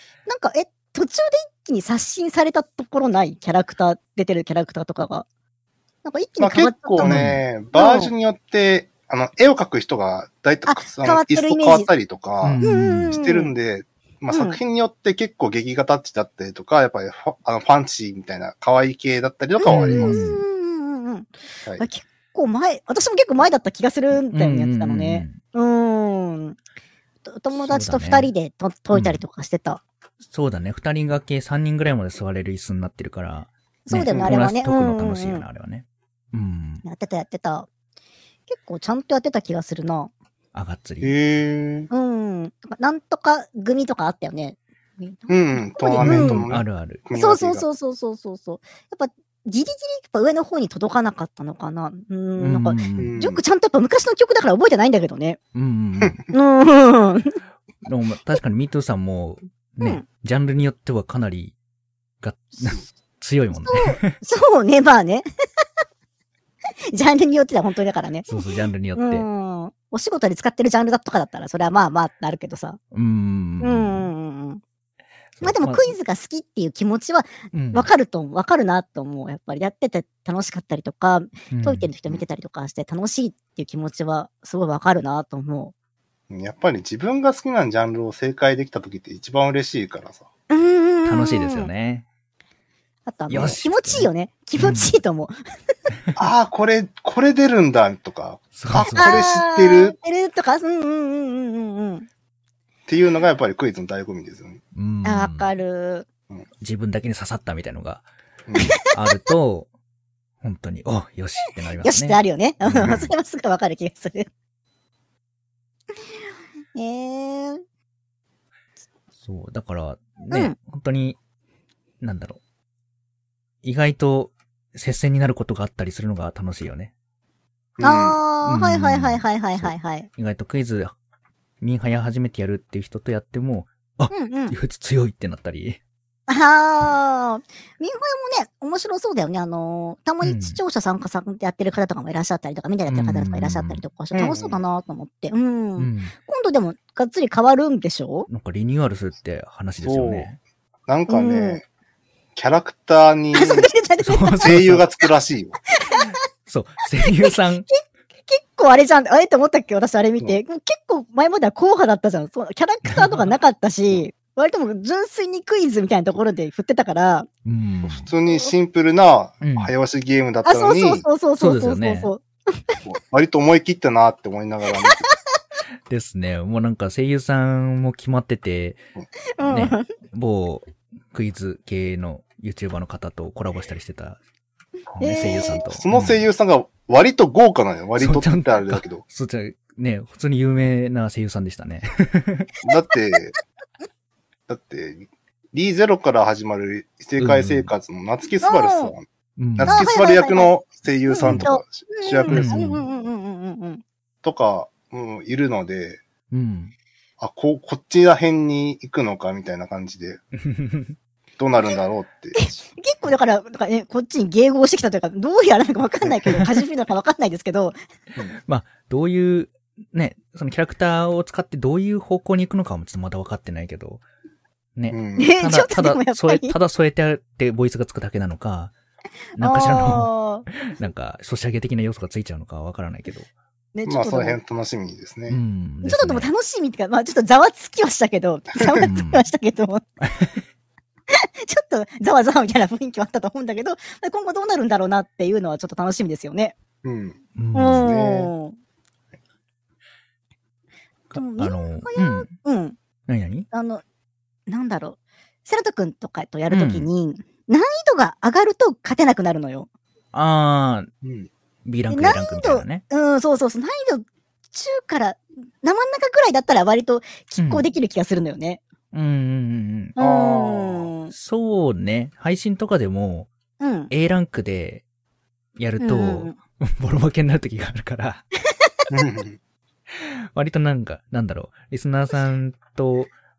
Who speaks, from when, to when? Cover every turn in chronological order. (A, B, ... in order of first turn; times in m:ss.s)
0:00.3-0:05.2 A
0:06.0-0:07.2 A
0:06.4-0:20.2 B
0:07.0-0:07.4 C
0:07.7-0:08.1 A
0:10.6-0:11.9 A
0:12.4-0:13.2 C
0:12.6-0:13.5 A
0:14.3-0:14.6 A
0:19.6-0:26.6 A
0:19.7-0:20.4 C
0:24.1-0:25.4 C
0:27.2-0:29.8 A
0:27.5-0:28.3 C
0:28.9-0:29.2 C
0:30.2-0:36.8 C
0:33.8-0:35.4 A
0:36.8-0:37.7 A
0:38.5-0:40.1 A
0:40.5-0:41.1 C
0:41.0-0:41.9 B
0:41.9-0:46.4 A
0:45.3-0:47.6 B
0:46.0-0:47.0 C
0:47.1-0:55.4 A
0:52.4-0:53.2 C
0:53.0-0:53.4 B
0:55.5-0:56.2 C
0:56.3-0:57.4 A
0:57.8-1:01.5 C
1:02.2-1:04.2 C
1:03.5-1:05.3 A
1:06.9-1:08.4 A
1:08.3-1:09.3 C
1:08.9-1:12.8 A
1:12.9-1:14.1 C
1:13.6-1:14.6 A
1:15.4-1:15.9 C
1:15.4-1:25.7 A
1:17.5-1:17.9 C
1:21.5-1:21.9 C
1:26.3-1:30.3 B
1:30.5-1:31.7 A
1:31.0-1:32.0 C
1:33.1-1:35.3 A
1:33.3-1:34.9 C
1:36.2-1:39.9 B
1:38.6-1:39.2 C
1:39.0-1:42.1 A
1:42.9-1:44.6 B
1:44.7-1:45.5 C
1:45.0-1:46.0 A
1:46.6-1:48.1 C
1:48.5-1:48.8 B
1:48.6-1:48.9 A
1:48.8-1:49.7 C
1:50.4-1:53.1 C
1:51.8-1:54.3 A
1:56.7-1:57.6 A
1:59.2-2:01.2 C
2:00.3-2:00.6 A
2:02.0-2:02.4 C
2:03.6-2:06.9 C
2:07.8-2:08.2 B
2:07.8-2:10.1 A
2:08.4-2:10.9 C
2:11.6-2:15.8 C
2:14.1-2:14.6 A
2:16.3-2:28.3 A
2:20.2-2:20.6 C
2:22.9-2:23.8 C
2:24.1-2:24.6 B
2:25.8-2:26.1 C
2:28.3-2:30.4 C
2:29.8-2:30.3 B
2:30.9-2:31.6 B
2:31.1-2:31.6 A
2:32.4-2:33.7 B
2:33.3-2:34.5 A
2:34.0-2:34.8 C
2:34.4-2:35.6 B
2:35.7-2:36.1 A
2:36.5-2:37.7 C
2:37.0-2:47.3 A
2:42.9-2:43.3 C
2:47.4-2:48.1 C
2:47.8-2:51.0 B
2:49.4-2:49.7 C
2:50.4-2:52.8 A
2:51.4-2:52.1 C
2:52.8-2:55.1 B
2:54.7-2:55.0 A
2:55.9-2:58.8 C
2:59.4-2:59.9 A
2:59.4-3:04.2 C
3:04.9-3:06.2 C
3:05.0-3:05.6 A
3:05.2-3:09.0 B
3:08.0-3:12.5 C
3:12.6-3:13.3 B
3:14.5-3:19.0 B
3:17.2-3:17.7 C
3:18.4-3:18.9 A
3:19.4-3:19.9 C
3:19.6-3:22.7 B
3:19.6-3:20.5 A
3:21.1-3:23.8 A
3:21.2-3:21.5 C
3:22.3-3:22.8 C
3:24.2-3:26.0 B
3:26.3-3:26.7 C
3:27.2-3:30.2 B
3:30.4-3:31.0 C
3:31.4-3:32.6 B
3:32.4-3:37.8 A
3:38.4-3:44.0 C
3:44.8-3:48.7 C
3:44.9-3:45.3 B
3:45.2-3:46.5 A
3:49.4-3:53.3 C
3:49.4-3:50.5 A
3:53.7-3:54.4 A
3:53.9-3:55.4 B
3:55.3-3:56.3 C
3:55.8-3:59.8 A
3:58.8-3:59.2 C
4:00.0-4:00.4 C
4:01.1-4:06.5 A
4:06.8-4:07.2 B
4:07.4-4:07.9 C
4:07.5-4:08.6 A
4:07.7-4:08.3 B
4:11.1-4:12.3 C
4:11.1-4:12.8 A
4:13.1-4:13.5 C
4:13.5-4:13.8 A
4:14.5-4:19.7 A
4:16.5-4:16.9 C
4:20.1-4:20.9 C
4:21.0-4:21.3 B
4:21.6-4:22.8 C
4:21.9-4:28.6 A
4:27.4-4:27.6 C
4:28.9-4:30.0 C
4:30.0-4:31.1 A
4:30.0-4:30.9 B
4:31.1-4:33.3 C
4:33.6-4:33.9 A
4:33.9-4:34.8 C
4:35.6-4:38.2 C
4:35.8-4:36.4 A
4:38.9-4:39.4 B
4:39.9-4:43.1 C